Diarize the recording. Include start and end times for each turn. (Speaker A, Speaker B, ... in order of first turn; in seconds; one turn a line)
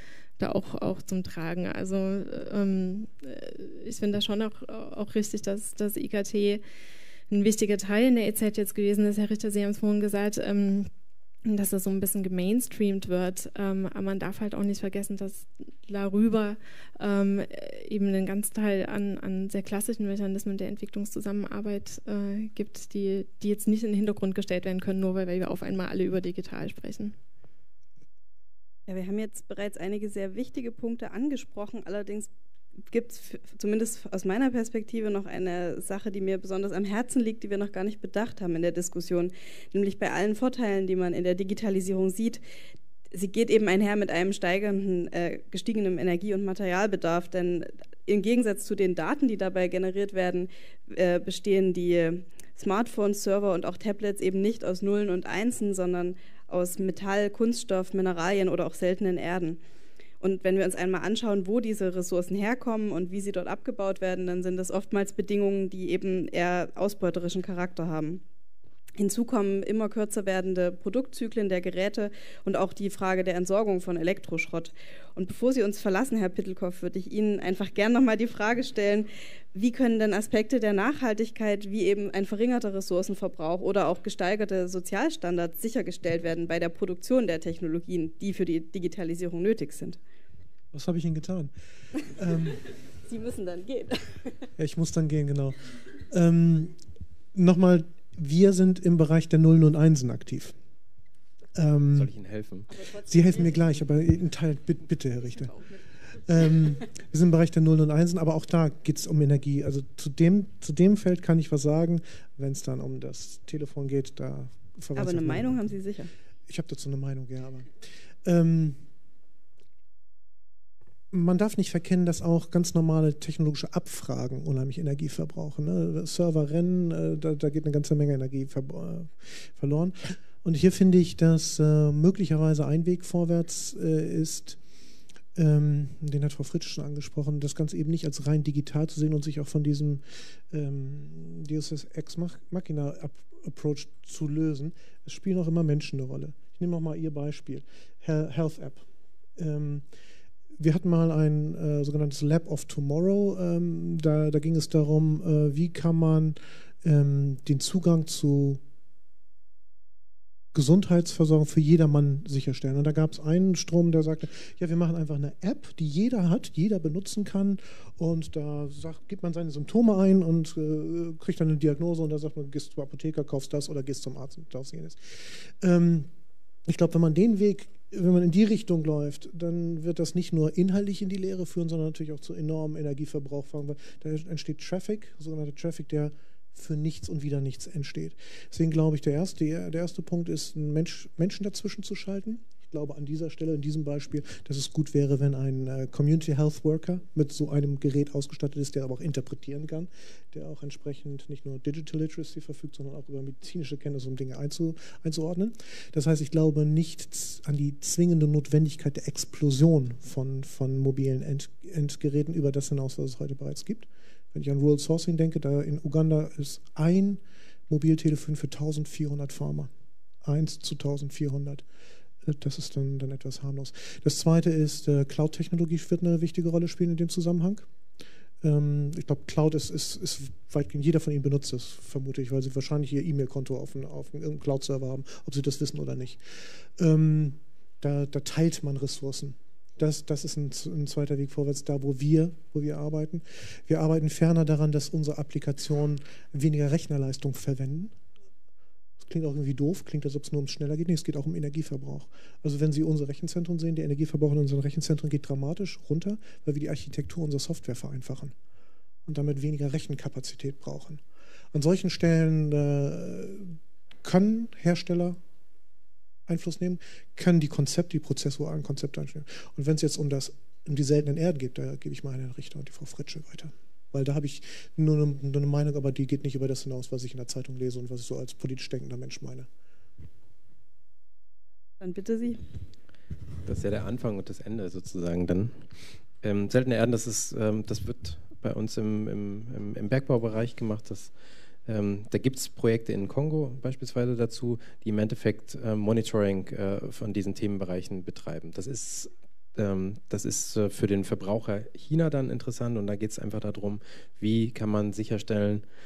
Speaker A: 0.4-6.6
Speaker A: 7.3-10.9
Speaker A: 11.5-27.1
Speaker B: 28.9-32.3
Speaker B: 32.9-42.4
Speaker B: 43.1-59.6
Speaker B: 60.2-68.2
Speaker B: 69.0-90.0
Speaker C: 90.7-91.5
Speaker C: 92.1-92.6
Speaker B: 93.0-94.5
Speaker C: 94.6-96.8
Speaker C: 97.3-100.5
Speaker C: 101.5-102.1
Speaker D: 102.0-102.7
Speaker B: 102.7-103.6
Speaker C: 103.1-105.5
Speaker C: 106.2-115.8
Speaker B: 115.0-116.1
Speaker C: 116.5-118.8
Speaker C: 121.1-134.6
Speaker C: 135.3-148.8
Speaker C: 149.4-149.8
Speaker C: 150.6-158.6
Speaker C: 160.5-176.1
Speaker C: 176.7-219.7
Speaker C: 220.2-221.7
Speaker C: 222.2-227.7
Speaker C: 228.4-247.9
Speaker C: 249.0-258.4
Speaker C: 259.1-261.0
Speaker C: 261.5-265.2
Speaker C: 266.3-279.5
Speaker B: 281.8-282.4
Speaker D: 283.4-285.6
Speaker D: 286.2-291.1
Speaker D: 291.7-305.6